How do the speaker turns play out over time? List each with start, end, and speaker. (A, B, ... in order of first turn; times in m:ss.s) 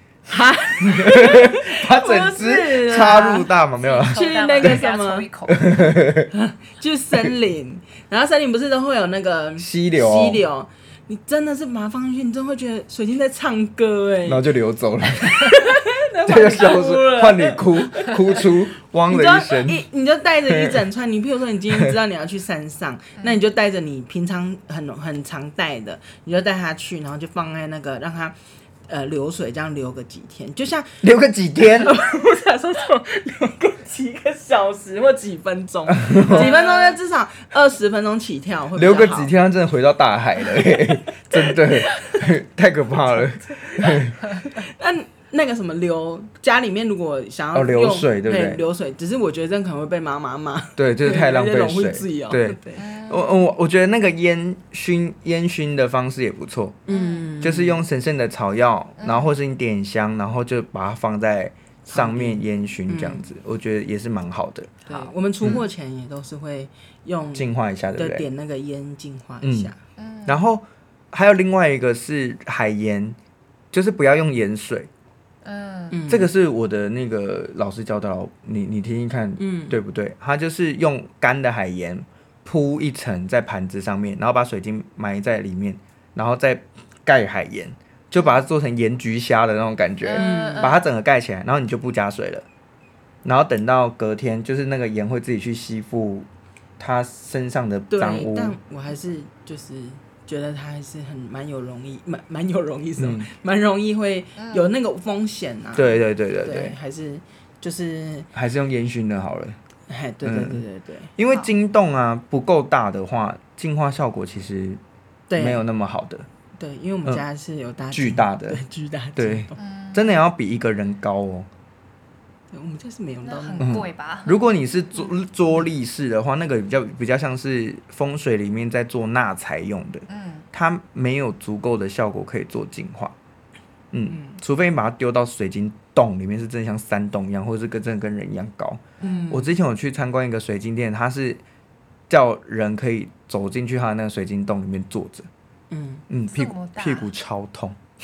0:00.3-0:03.5 A
0:00.8-0:04.8 B
0:02.8-0:05.8 C
0:04.1-0:05.3 A
0:05.5-0:06.3 B
0:06.3-0:14.4 A
0:09.6-0:10.4 B
0:14.2-0:15.6 B
0:15.2-0:18.5 A
0:16.3-0:19.8 B
0:19.1-0:28.4 A
0:20.5-0:20.8 B
0:28.9-0:31.0 A
0:31.0-0:31.9 B
0:31.6-0:39.3 A
0:35.9-0:36.5 B
0:36.2-0:37.0 C
0:38.7-0:44.2 B
0:40.5-0:41.7 A
0:43.5-0:52.8 A
0:47.5-0:48.6 B
0:50.8-0:56.9 B
0:52.7-0:53.4 C
0:56.9-0:57.8 A
0:56.9-0:57.3 C
0:57.4-1:04.7 B
0:59.0-0:59.3 C
1:01.9-1:03.2 A
1:04.8-1:09.8 A
1:04.9-1:05.5 C
1:07.3-1:08.3 B
1:09.4-1:09.7 B
1:10.0-1:10.5 C
1:10.2-1:13.2 B
1:13.7-1:14.9 B
1:15.4-1:16.0 C
1:15.9-1:16.3 A
1:16.1-1:32.4 B
1:19.4-1:19.8 A
1:30.0-1:30.8 C
1:30.1-1:30.8 A
1:33.2-1:36.3 B
1:36.8-1:38.6 B
1:37.9-1:48.3 A
1:43.0-1:43.3 B
1:44.4-1:44.7 C
1:45.7-1:46.8 B
1:48.3-1:49.6 B
1:49.9-1:51.1 A
1:50.2-1:50.6 B
1:51.2-1:54.8 B
1:55.3-1:55.6 A
1:55.4-1:56.3 B
1:56.6-1:59.6 A
1:57.9-1:58.6 B
1:59.2-2:01.5 B
1:59.6-2:00.2 C
2:02.5-2:03.8 A
2:03.2-2:04.4 C
2:03.6-2:13.2 B
2:10.1-2:10.5 C
2:13.9-2:21.4 B
2:14.1-2:14.4 A
2:19.0-2:19.3 C
2:19.0-2:19.5 A
2:22.1-2:25.3 B
2:25.7-2:26.0 A
2:26.1-2:27.8 B
2:26.3-2:27.1 C